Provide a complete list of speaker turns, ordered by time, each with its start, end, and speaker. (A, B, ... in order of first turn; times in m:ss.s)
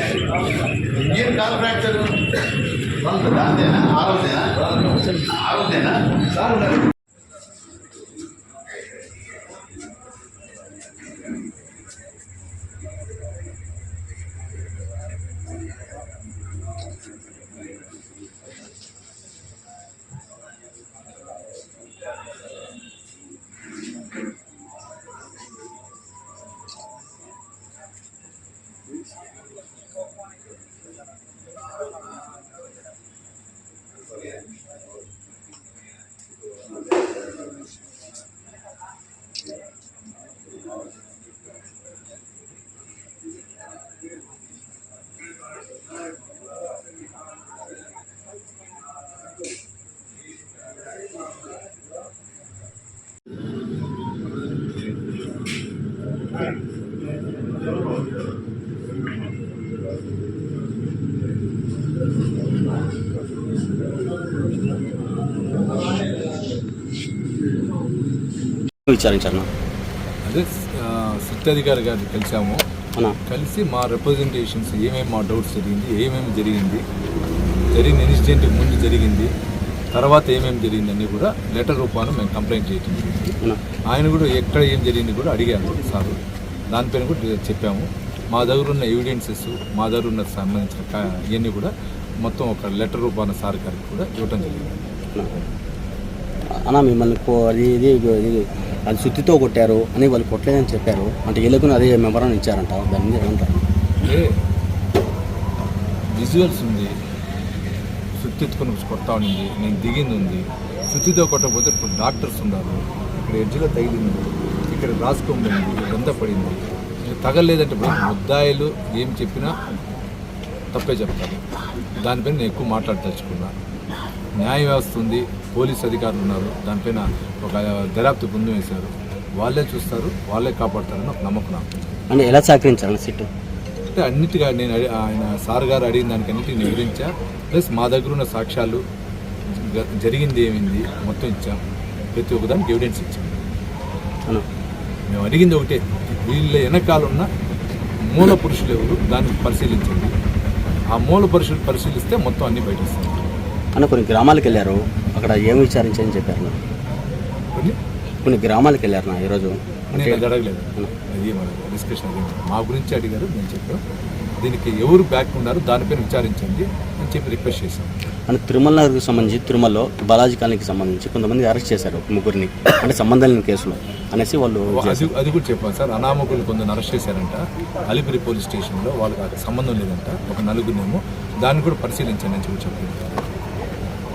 0:01.1-0:02.1 A
0:03.1-0:03.4 B
0:03.4-0:04.4 A
0:05.5-0:05.9 A
0:06.4-0:06.6 B
1:08.9-1:09.5 C
1:10.2-1:12.6 B
1:13.3-1:16.8 B
1:17.7-1:19.3 B
1:19.9-1:23.3 B
1:23.9-1:26.2 B
1:26.7-1:31.7 B
1:32.2-1:34.7 B
1:36.6-1:43.6 C
1:44.0-1:44.3 B
1:46.1-1:46.9 B
1:48.2-1:59.5 B
2:00.7-2:01.4 B
2:02.0-2:03.5 B
2:04.4-2:12.0 B
2:12.1-2:13.3 C
2:13.9-2:18.8 B
2:19.5-2:21.6 B
2:22.1-2:23.4 B
2:25.1-2:27.3 B
2:28.1-2:30.1 B
2:30.9-2:33.3 B
2:33.8-2:36.5 C
2:38.2-2:40.2 C
2:39.9-2:43.8 B
2:44.4-2:48.0 B
2:48.3-2:55.1 C
2:54.7-3:03.2 B